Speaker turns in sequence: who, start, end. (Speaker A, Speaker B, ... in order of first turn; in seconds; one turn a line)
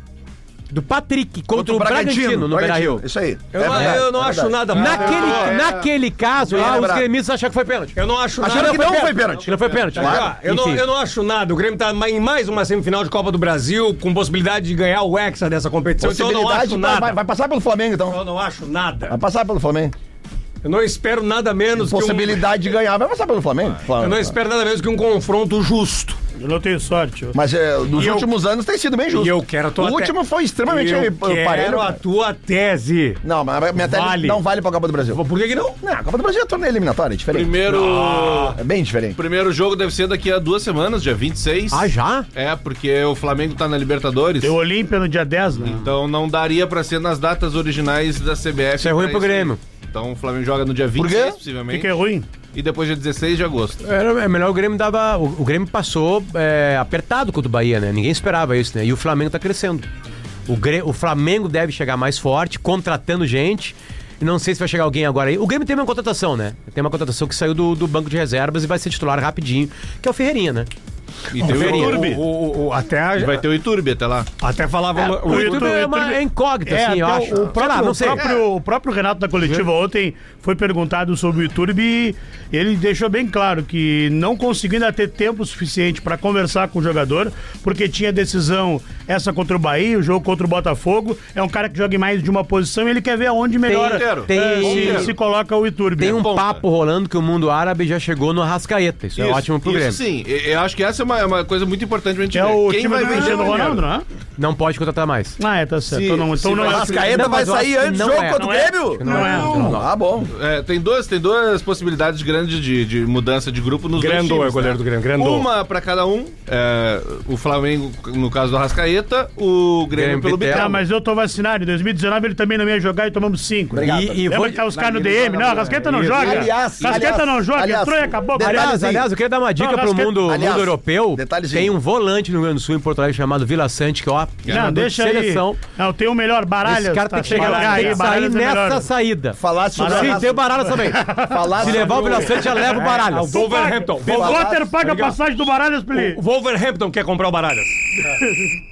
Speaker A: 0.7-3.0
Speaker B: 1.5-4.7
Speaker C: 3.5-5.6
Speaker A: 3.6-4.0
Speaker D: 4.7-5.9
Speaker A: 4.7-10.8
Speaker B: 6.5-7.0
Speaker C: 6.6-6.9
Speaker C: 8.0-9.2
Speaker B: 8.4-10.3
Speaker D: 9.3-9.9
Speaker C: 9.8-17.2
Speaker B: 16.0-18.2
Speaker C: 18.1-19.1
Speaker B: 19.1-19.9
Speaker C: 20.6-22.4
Speaker B: 21.8-24.3
Speaker C: 24.0-26.2
Speaker E: 26.4-27.4
Speaker B: 27.3-32.0
Speaker C: 27.9-28.3
Speaker C: 29.1-30.1
Speaker C: 30.7-33.2
Speaker B: 33.2-35.2
Speaker C: 33.8-34.4
Speaker C: 35.1-35.8
Speaker B: 35.8-37.6
Speaker D: 37.3-38.6
Speaker C: 37.7-38.6
Speaker B: 38.5-39.2
Speaker D: 39.1-44.5
Speaker A: 41.7-42.2
Speaker E: 44.4-45.8
Speaker D: 45.6-51.9
Speaker A: 48.8-49.6
Speaker B: 51.0-51.4
Speaker E: 51.7-52.3
Speaker D: 52.5-53.8
Speaker A: 53.8-59.9
Speaker A: 60.5-70.7
Speaker D: 71.3-72.2
Speaker C: 71.4-73.4
Speaker A: 71.5-72.0
Speaker D: 73.2-74.3
Speaker C: 74.4-75.8
Speaker A: 75.0-78.2
Speaker E: 75.2-96.2
Speaker D: 78.2-78.4
Speaker A: 93.6-95.1
Speaker D: 93.7-95.1
Speaker A: 96.0-100.0
Speaker D: 96.0-96.6
Speaker D: 99.2-103.8
Speaker E: 102.3-104.0
Speaker A: 104.4-105.4
Speaker E: 105.4-107.2
Speaker D: 105.9-107.2
Speaker B: 106.6-110.3
Speaker A: 107.1-109.9
Speaker E: 108.1-109.8
Speaker D: 110.3-120.8
Speaker C: 114.0-115.5
Speaker A: 119.9-120.8
Speaker E: 120.5-128.8
Speaker B: 123.7-124.3
Speaker A: 123.8-124.7
Speaker D: 124.7-126.3
Speaker B: 126.1-129.1
Speaker A: 128.4-135.6
Speaker E: 129.6-130.2
Speaker B: 130.2-131.7
Speaker E: 134.5-138.9
Speaker A: 136.6-143.4
Speaker C: 137.3-137.8
Speaker B: 139.4-142.4
Speaker E: 139.8-142.8
Speaker C: 142.6-145.2
Speaker E: 143.3-146.2
Speaker B: 144.0-144.7
Speaker C: 145.9-147.8